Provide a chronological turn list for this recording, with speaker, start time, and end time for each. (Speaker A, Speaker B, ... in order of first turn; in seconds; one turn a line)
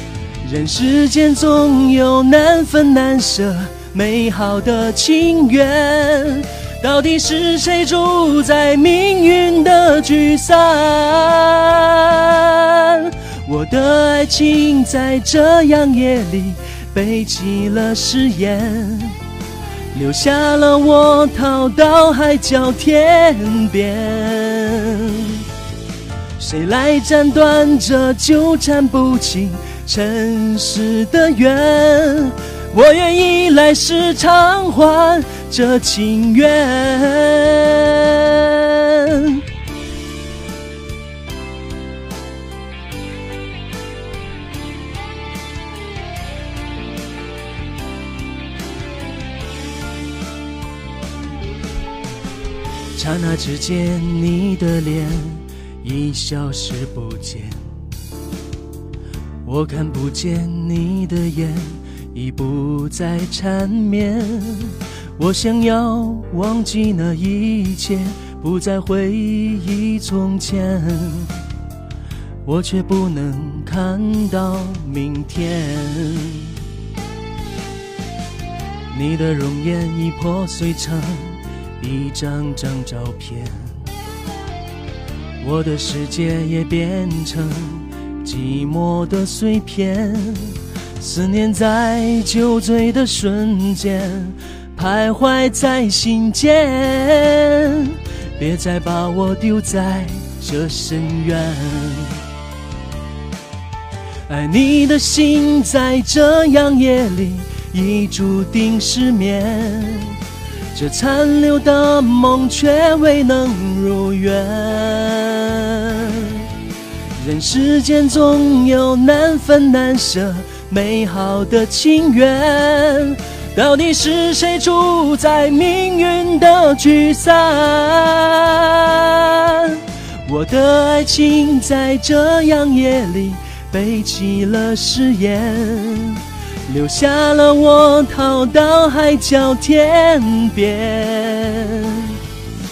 Speaker A: 0.4-19.2
Speaker A: 19.9-25.5
Speaker A: 26.4-39.4
Speaker A: 53.0-57.6
Speaker A: 59.5-71.4
Speaker A: 72.5-76.6
Speaker A: 78.9-83.8
Speaker A: 85.4-102.2
Speaker A: 104.3-110.2
Speaker A: 110.7-116.5
Speaker A: 117.2-142.2